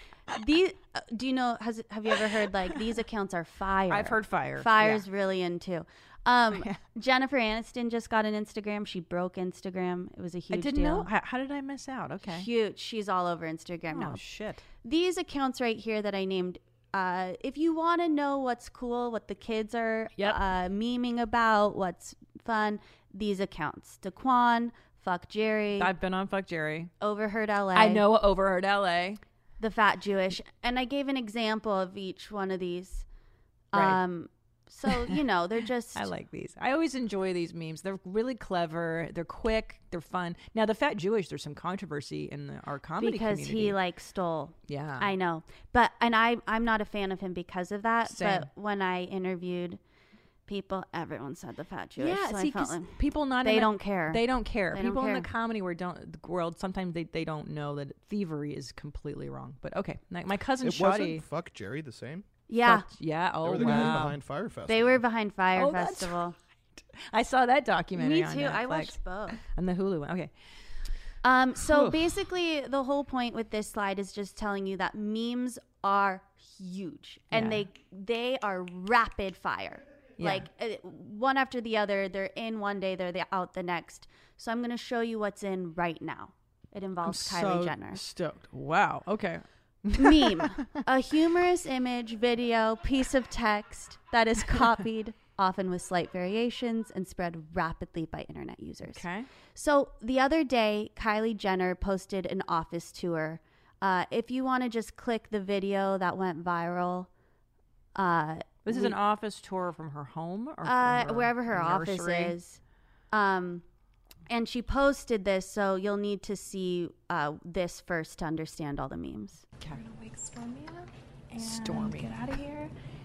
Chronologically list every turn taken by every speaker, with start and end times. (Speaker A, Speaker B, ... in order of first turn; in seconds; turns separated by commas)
Speaker A: 0.3-11.1, Speaker B: 3.9-5.0, Speaker B: 6.5-6.8, Speaker B: 10.5-12.5, Speaker A: 12.3-14.2, Speaker B: 13.9-14.6, Speaker A: 14.8-25.9, Speaker B: 25.8-26.9, Speaker A: 27.0-28.1, Speaker B: 27.7-29.2, Speaker A: 29.6-33.0, Speaker A: 33.7-36.1, Speaker B: 33.7-34.0, Speaker B: 34.9-35.2, Speaker B: 35.9-43.8, Speaker A: 43.0-49.8, Speaker B: 44.7-45.1, Speaker B: 48.0-48.5, Speaker A: 50.5-55.3, Speaker B: 52.0-61.2, Speaker C: 60.6-62.2, Speaker A: 62.5-62.9, Speaker B: 62.6-64.2, Speaker C: 63.4-65.0, Speaker A: 63.6-64.0, Speaker A: 64.7-66.3, Speaker B: 65.5-66.2, Speaker B: 66.8-70.3, Speaker A: 68.0-69.4, Speaker A: 71.2-88.0, Speaker B: 71.6-72.2, Speaker B: 77.3-77.6, Speaker B: 80.2-80.5, Speaker B: 87.0-90.8, Speaker A: 89.9-107.1, Speaker B: 98.9-99.3, Speaker A: 108.0-109.0, Speaker B: 108.7-112.4, Speaker A: 110.6-112.6, Speaker A: 113.1-113.6, Speaker A: 114.3-119.4, Speaker D: 119.7-122.7, Speaker B: 121.4-122.1